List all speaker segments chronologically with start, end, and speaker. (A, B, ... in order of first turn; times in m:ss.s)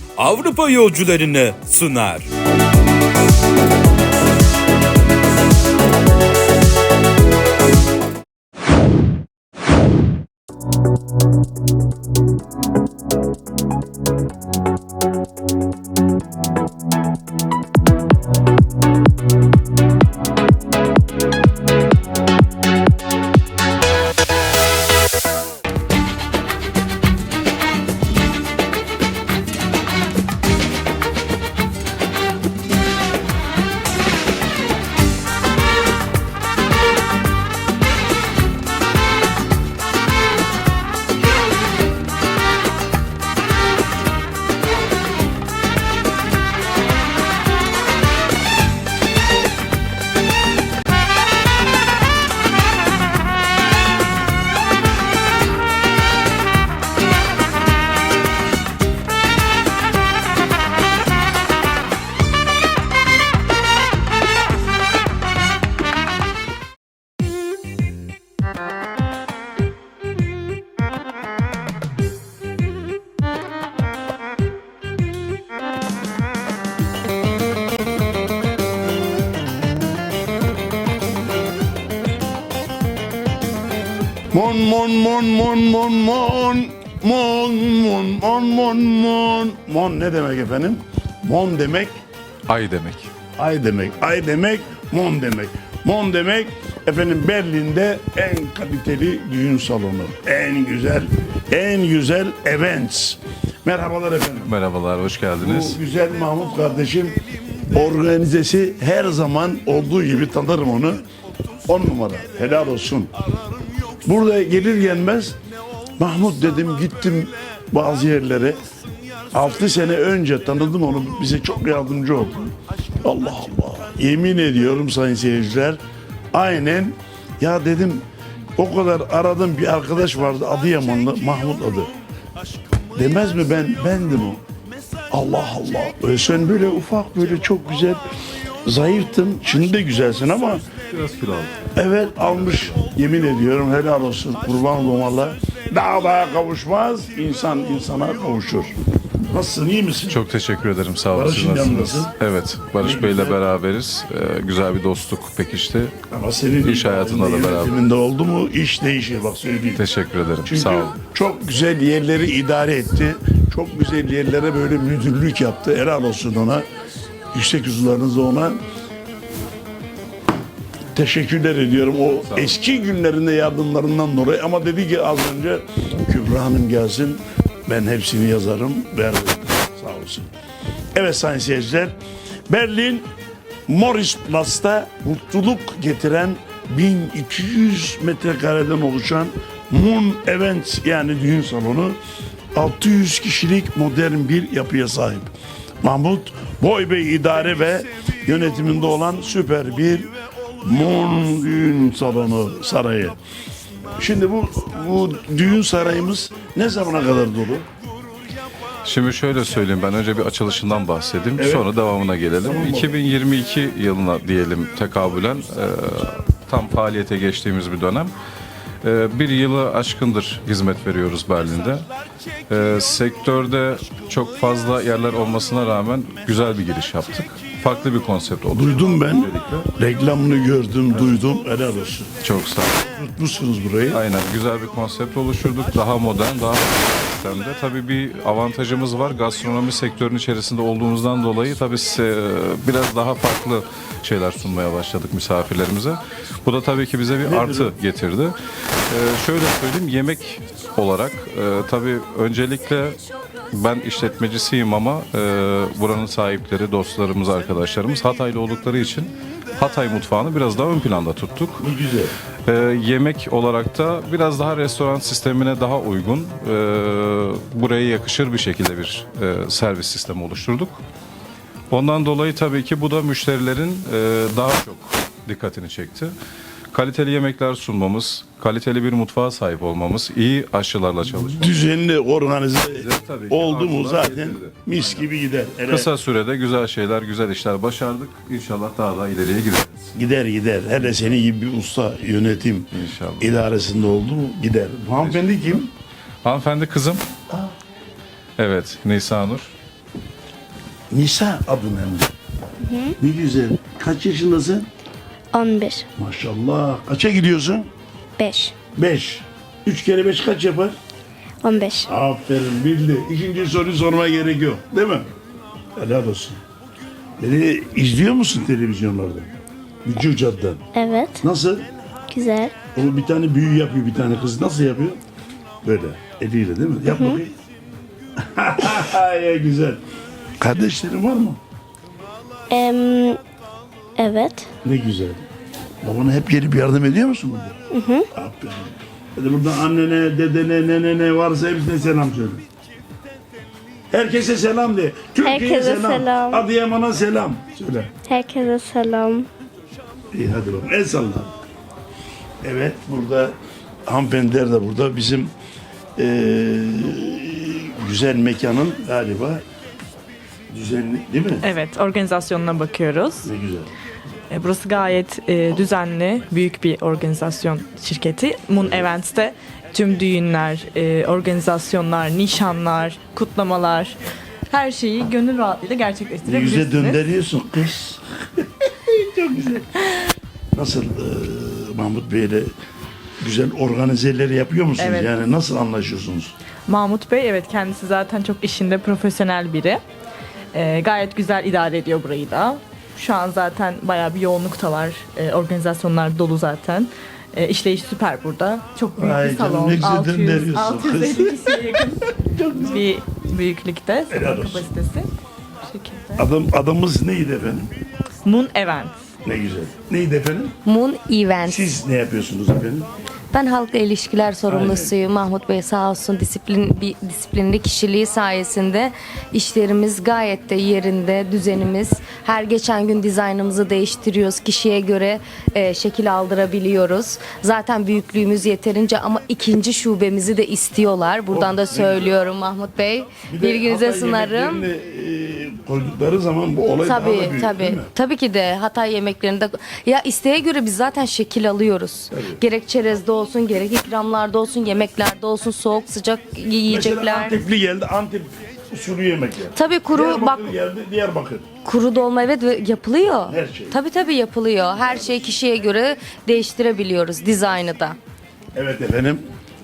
0:00.2-0:02.3 A
1:24.3-1:32.0 B
1:32.5-1:33.1 C
1:33.4-1:44.5 B
1:44.5-1:45.8 C
1:45.4-1:47.2 B
1:47.7-1:51.0 B
1:51.7-1:53.1 B
1:54.0-1:55.4 B
1:56.0-1:58.6 B
1:59.3-2:05.8 B
2:06.3-2:08.1 B
2:08.6-2:11.9 B
2:13.0-2:14.4 B
2:15.1-2:18.0 B
2:18.7-2:20.7 B
2:20.9-2:21.6 C
2:21.8-2:28.8 B
2:22.2-2:22.9 C
2:29.3-2:30.2 B
2:30.1-2:36.0 C
2:31.1-2:32.1 B
2:32.8-2:33.4 B
2:36.1-2:39.8 B
2:36.6-2:37.9 C
2:39.8-2:41.0 C
2:40.4-2:46.7 B
2:47.3-2:48.6 B
2:50.9-3:00.3 B
2:52.2-2:52.6 C
3:01.0-3:02.0 B
3:02.5-3:03.1 B
3:03.7-3:12.0 B
3:12.6-3:15.3 B
3:15.8-3:20.1 B
3:20.6-3:23.2 B
3:24.0-3:27.7 B
3:28.8-3:38.1 C
3:31.4-3:31.7 B
3:32.4-3:32.9 B
3:38.8-3:41.9 C
3:42.5-3:49.7 C
3:48.5-3:52.1 B
3:52.2-3:52.8 C
3:52.8-3:54.0 B
3:53.9-4:08.4 C
4:07.2-4:07.8 B
4:08.9-4:13.0 C
4:13.5-4:21.6 C
4:21.6-4:22.1 B
4:22.5-4:30.8 C
4:31.7-4:36.2 C
4:36.7-4:41.6 C
4:41.3-4:45.9 B
4:42.7-4:45.1 C
4:45.7-4:49.9 C
4:49.9-4:52.7 B
4:52.7-4:53.4 C
4:53.2-4:55.7 B
4:55.0-4:55.3 C
4:56.2-4:57.0 C
4:58.4-4:59.5 C
5:00.9-5:02.1 B
5:02.6-5:03.0 D
5:03.0-5:04.7 B
5:05.3-5:05.9 D
5:06.0-5:07.7 B
5:08.2-5:08.6 D
5:08.8-5:10.8 B
5:11.4-5:11.9 D
5:11.9-5:15.1 B
5:15.8-5:16.4 B
5:17.2-5:19.3 B
5:19.8-5:20.6 B
5:20.8-5:21.2 D
5:21.2-5:21.6 B
5:22.1-5:22.5 D
5:22.8-5:25.0 B
5:25.6-5:27.3 B
5:26.9-5:27.2 D
5:28.2-5:29.8 B
5:30.4-5:31.4 B
5:32.5-5:33.2 D
5:34.0-5:34.5 D
5:34.6-5:35.2 B
5:35.8-5:37.6 B
5:37.7-5:38.1 D
5:38.1-5:42.4 B
5:43.9-5:47.9 B
5:45.2-5:46.4 D
5:48.1-5:49.3 D
5:50.1-5:51.3 B
5:52.4-5:55.3 B
5:56.0-5:59.4 B
6:00.5-6:01.4 B
6:01.4-6:03.3 E
6:03.2-6:03.7 B
6:04.3-6:14.0 E
6:14.5-6:17.0 E
6:16.2-6:19.7 B
6:20.5-6:22.5 B
6:23.2-6:26.3 B
6:24.8-6:25.1 E
6:26.7-6:29.8 E
6:30.5-6:42.1 E
6:39.0-6:41.4 B
6:42.2-6:42.8 B
6:42.6-6:45.1 E
6:44.1-6:44.7 B
6:45.6-6:46.2 E
6:46.2-6:47.7 B
6:48.2-6:49.0 E
6:49.2-6:50.6 B
6:50.6-6:51.6 F
6:51.4-6:52.9 B
6:53.3-7:14.7 F
6:54.5-6:54.9 B
7:11.3-7:12.2 B
7:13.3-7:17.9 B
7:16.8-7:27.4 F
7:22.1-7:22.4 B
7:26.7-7:31.5 B
7:29.6-7:30.5 F
7:31.6-7:38.0 F
7:33.3-7:33.8 B
7:38.6-7:39.2 B